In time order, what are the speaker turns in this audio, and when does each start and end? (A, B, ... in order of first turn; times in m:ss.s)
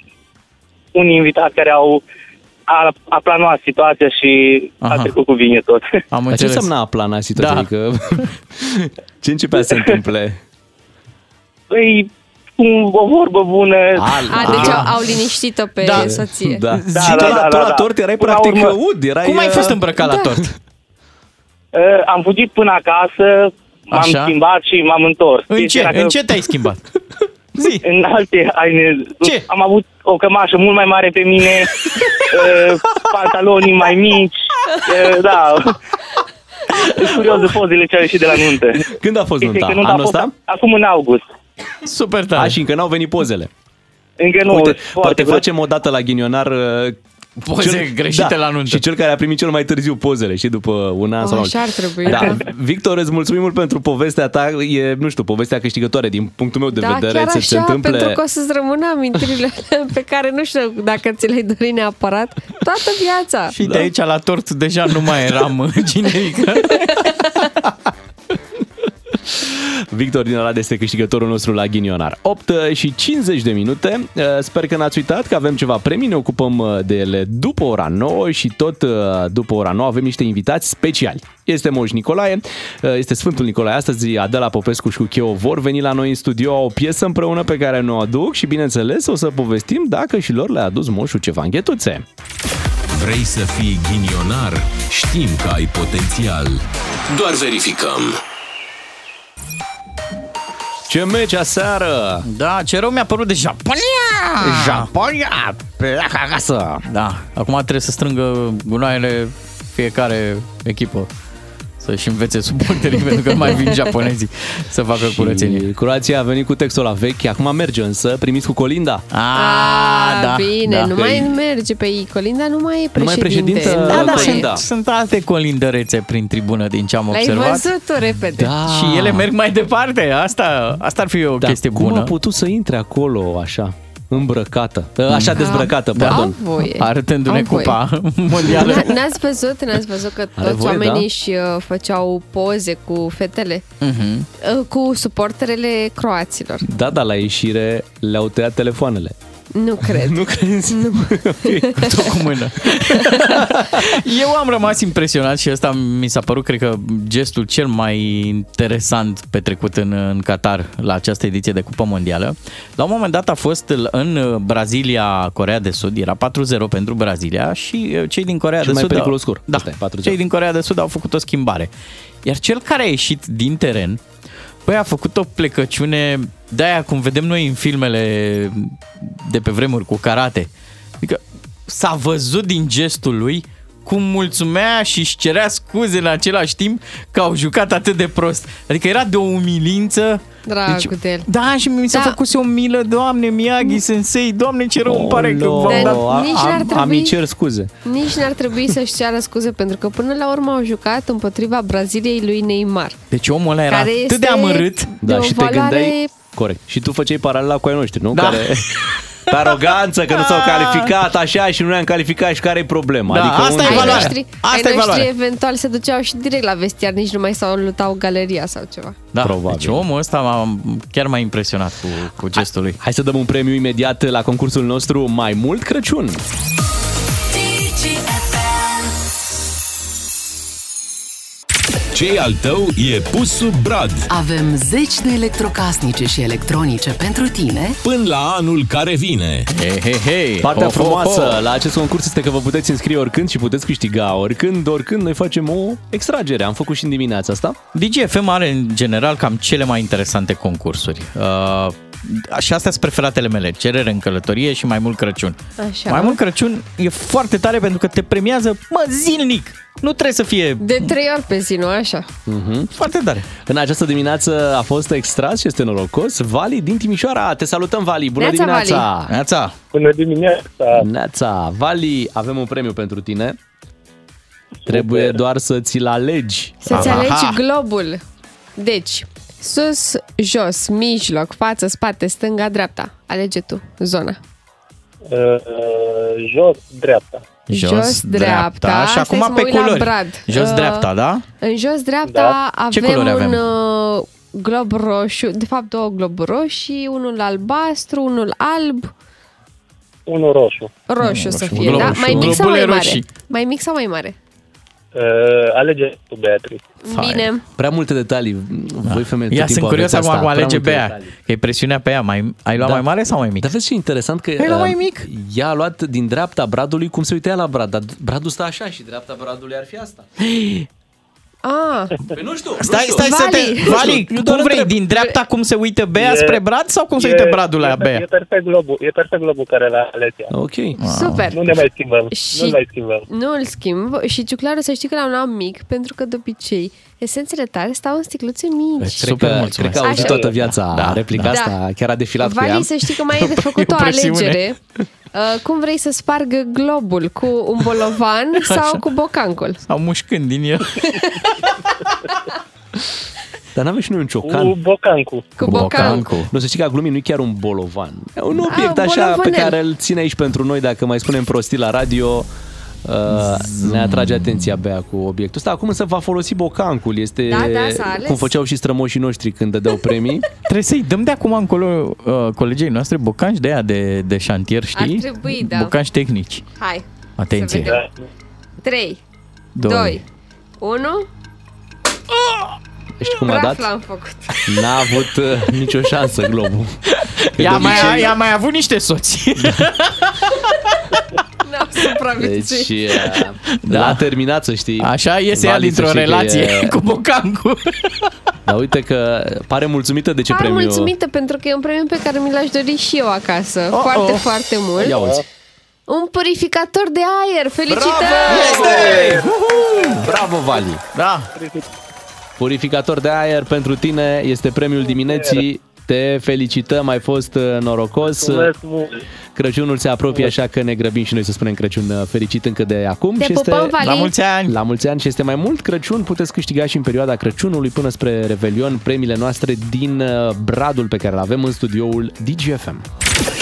0:01.0-0:02.0 A
0:02.7-0:06.0 A
0:04.8-0:05.2 B
0:06.1-0:06.7 B
0:06.3-0:10.4 C
0:07.4-0:07.7 B
0:11.7-0:14.1 A
0:14.0-0:14.9 C
0:14.3-0:16.6 D
0:14.4-0:14.9 B
0:15.8-0:16.2 B
0:16.0-0:19.8 C
0:16.9-0:18.8 A
0:19.2-0:20.5 B
0:21.7-0:26.1 A
0:23.9-0:24.4 B
0:25.5-0:26.8 B
0:27.6-0:27.8 B
0:27.8-0:31.7 A
0:32.3-0:35.8 A
0:36.9-0:38.8 A
0:38.9-0:40.3 C
0:39.4-0:41.2 A
0:41.8-0:42.6 B
0:42.4-0:43.5 C
0:44.2-0:45.4 A
0:44.5-0:47.0 C
0:47.4-0:48.8 B
0:47.6-0:58.2 C
0:51.2-0:52.4 D
0:56.8-1:03.5 D
1:03.5-1:07.5 B
1:03.6-1:03.9 C
1:09.3-1:32.1 C
1:32.9-1:38.2 E
1:40.9-1:42.2 C
1:42.2-1:44.9 B
1:44.4-1:46.8 C
1:46.9-1:51.1 B
1:51.8-1:55.6 B
1:55.0-1:59.0 C
1:59.1-2:01.3 B
1:59.3-2:04.5 D
2:03.0-2:04.6 C
2:03.9-2:07.7 B
2:07.1-2:08.5 D
2:08.4-2:09.3 C
2:08.6-2:12.1 B
2:11.4-2:16.4 C
2:15.1-2:19.0 B
2:15.4-2:17.8 D
2:18.4-2:23.6 D
2:20.4-2:21.1 C
2:23.8-2:24.3 B
2:24.4-2:26.7 D
2:26.6-2:29.2 C
2:29.6-2:31.8 D
2:29.8-2:33.9 C
2:31.8-2:51.7 B
2:48.6-2:50.2 C
2:52.2-2:54.0 B
2:54.6-3:00.5 B
3:01.0-3:16.0 B
3:10.5-3:11.3 D
3:11.9-3:12.2 D
3:14.8-3:17.7 C
3:15.7-3:17.2 D
3:17.8-3:23.0 D
3:23.1-3:24.9 B
3:23.7-3:26.1 D
3:25.0-3:34.1 C
3:28.1-3:31.0 B
3:33.1-3:35.1 B
3:33.6-3:39.0 D
3:39.1-3:42.8 B
3:39.2-3:39.9 C
3:42.8-3:46.2 C
3:51.9-3:54.1 E
3:54.1-3:57.8 F
3:57.8-3:59.5 E
3:59.5-4:01.4 B
4:00.4-4:07.6 C
4:07.7-4:20.9 B
4:15.6-4:16.2 D
4:20.6-4:22.1 D
4:22.3-4:22.7 C
4:22.7-4:23.3 B
4:23.4-4:29.1 C
4:28.2-4:28.9 D
4:29.1-4:29.6 B
4:29.7-4:30.9 G
4:30.7-4:33.4 C
4:34.7-4:37.1 C
4:34.7-4:35.2 G
4:36.6-4:38.0 D
4:36.7-4:37.4 B
4:38.6-4:44.2 D
4:45.1-4:47.2 G
4:47.5-4:51.2 B
4:47.5-4:50.9 D
4:51.4-4:58.9 D
4:52.1-4:52.4 G
4:52.7-4:53.4 B
5:00.1-5:00.7 G
5:00.9-5:04.2 D
5:01.0-5:03.1 B
5:01.5-5:02.4 C
5:04.9-5:06.7 G
5:06.8-5:07.4 D
5:06.9-5:07.3 B
5:07.6-5:11.1 C
5:08.9-5:13.5 B
5:12.6-5:12.8 C
5:13.4-5:20.1 C
5:14.4-5:15.1 B
5:20.3-5:20.6 B
5:21.4-5:22.0 D
5:22.1-5:24.8 C
5:22.6-5:28.0 B
5:23.0-5:23.8 D
5:24.9-5:25.2 D
5:26.0-5:26.4 G
5:27.0-5:30.3 G
5:30.3-5:30.8 C
5:30.8-5:31.3 B
5:30.9-5:31.4 D
5:31.3-5:33.1 G
5:32.1-5:39.1 D
5:38.8-5:41.4 B
5:39.0-5:42.7 C
5:39.8-5:40.3 D
5:41.3-5:41.6 D
5:42.2-5:44.6 D
5:43.2-5:44.4 B
5:45.1-5:49.6 D
5:48.4-5:48.8 B
5:49.6-5:51.5 B
5:50.8-5:51.1 D
5:53.6-5:54.6 C
5:54.2-5:55.3 G
5:55.4-5:56.1 D
5:55.4-5:56.3 B
5:55.7-6:02.3 C
5:58.5-5:59.6 D
6:02.8-6:10.3 C
6:03.1-6:04.5 B
6:07.3-6:08.4 D
6:10.5-6:16.4 B
6:14.8-6:15.7 D
6:16.6-6:17.8 D
6:17.2-6:17.8 B
6:17.7-6:18.0 G
6:18.6-6:19.0 D
6:19.6-6:20.0 B
6:19.6-6:20.0 D
6:20.6-6:21.1 D
6:23.0-6:23.7 C
6:23.2-6:24.3 D
6:24.5-6:26.8 C
6:27.0-6:30.8 B
6:27.3-6:28.2 C
6:27.6-6:28.1 D
6:31.4-6:32.7 D
6:32.2-6:36.8 C
6:33.6-6:34.0 B
6:34.8-6:38.1 B
6:38.5-6:40.9 C
6:40.3-6:45.0 D
6:43.7-6:44.3 B
6:44.8-6:45.2 C
6:44.9-6:45.2 G
6:45.9-6:48.7 D
6:47.7-6:50.8 C
6:48.3-6:48.9 B
6:48.6-6:49.2 G
6:50.9-6:51.3 B
6:51.4-6:51.6 G
6:52.4-6:58.5 C
6:54.8-6:55.4 G
6:58.0-6:59.0 G
6:59.4-7:03.8 C
7:00.1-7:00.4 G
7:03.2-7:04.1 D
7:03.8-7:04.6 B
7:04.5-7:12.9 C